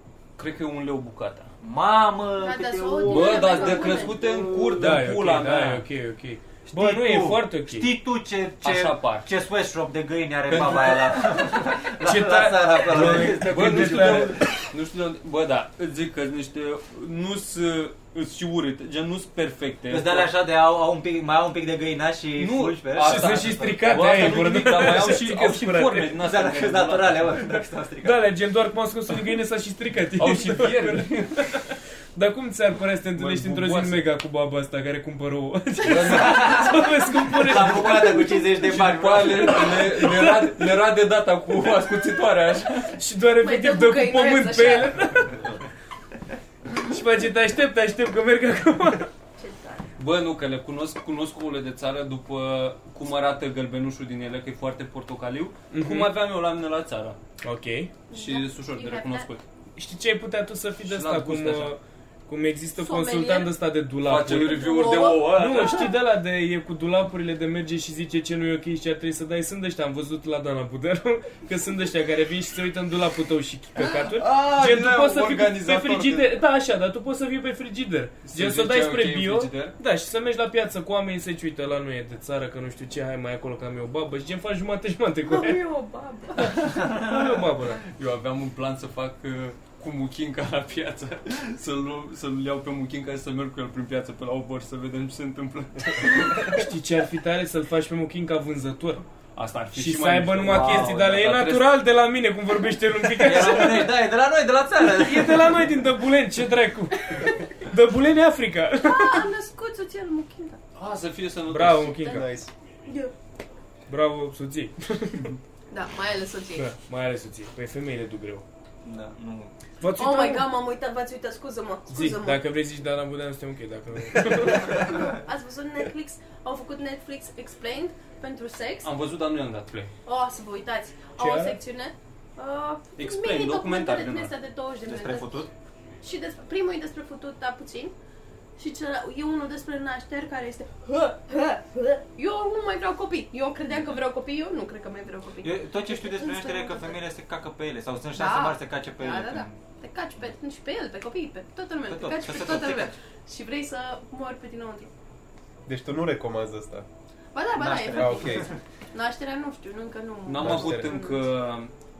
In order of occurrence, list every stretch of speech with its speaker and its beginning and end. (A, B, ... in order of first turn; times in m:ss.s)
0:00.4-0:01.5 A
0:01.6-0:04.9 B
0:02.4-0:04.2 C
0:03.0-0:05.8 A
0:04.8-0:08.0 D
0:06.7-0:14.6 B
0:08.6-0:09.3 A
0:10.5-0:11.6 A
0:12.0-0:14.4 D
0:13.0-0:20.3 A
0:19.9-0:24.2 B
0:22.4-0:27.5 A
0:23.0-0:26.2 D
0:26.1-0:28.2 B
0:28.0-0:38.4 D
0:30.2-0:31.5 A
0:33.2-0:34.0 A
0:35.8-0:36.7 A
0:35.9-0:40.0 B
0:38.4-0:43.0 A
0:39.7-0:40.6 D
0:43.0-0:45.4 D
0:43.4-0:45.1 C
0:46.7-0:49.1 D
0:49.4-0:49.8 C
0:50.0-0:57.2 A
0:55.7-0:56.1 D
0:57.4-0:57.9 D
0:58.1-0:59.3 C
0:58.1-0:59.4 A
0:59.8-1:25.6 D
1:00.8-1:01.7 A
1:02.8-1:03.5 C
1:04.0-1:05.9 A
1:04.5-1:05.4 C
1:13.8-1:16.3 A
1:18.3-1:19.7 A
1:25.2-1:26.7 C
1:26.4-1:27.8 D
1:27.9-1:36.6 A
1:36.2-1:39.0 D
1:39.3-1:41.8 A
1:39.7-1:44.1 D
1:40.4-1:41.1 B
1:43.2-1:45.7 B
1:44.8-1:49.3 D
1:48.8-1:50.6 C
1:50.8-1:52.2 A
1:51.5-1:52.3 D
1:51.9-1:52.3 C
1:52.0-1:52.5 E
1:52.8-1:53.1 C
1:53.9-1:55.3 D
1:55.7-1:56.7 C
1:56.6-1:58.4 D
1:58.8-1:59.5 B
1:59.8-2:00.5 D
1:59.9-2:02.4 C
2:01.9-2:04.9 D
2:04.2-2:08.9 C
2:08.8-2:09.9 A
2:10.0-2:15.4 C
2:11.2-2:11.6 D
2:13.0-2:14.3 A
2:14.8-2:15.5 B
2:16.0-2:17.9 C
2:18.6-2:27.0 C
2:25.4-2:29.6 B
2:28.1-2:34.9 C
2:31.9-2:32.9 B
2:35.6-2:36.8 E
2:37.3-2:41.3 C
2:37.5-2:38.6 B
2:37.9-2:38.4 E
2:40.2-2:41.7 A
2:40.4-2:41.0 E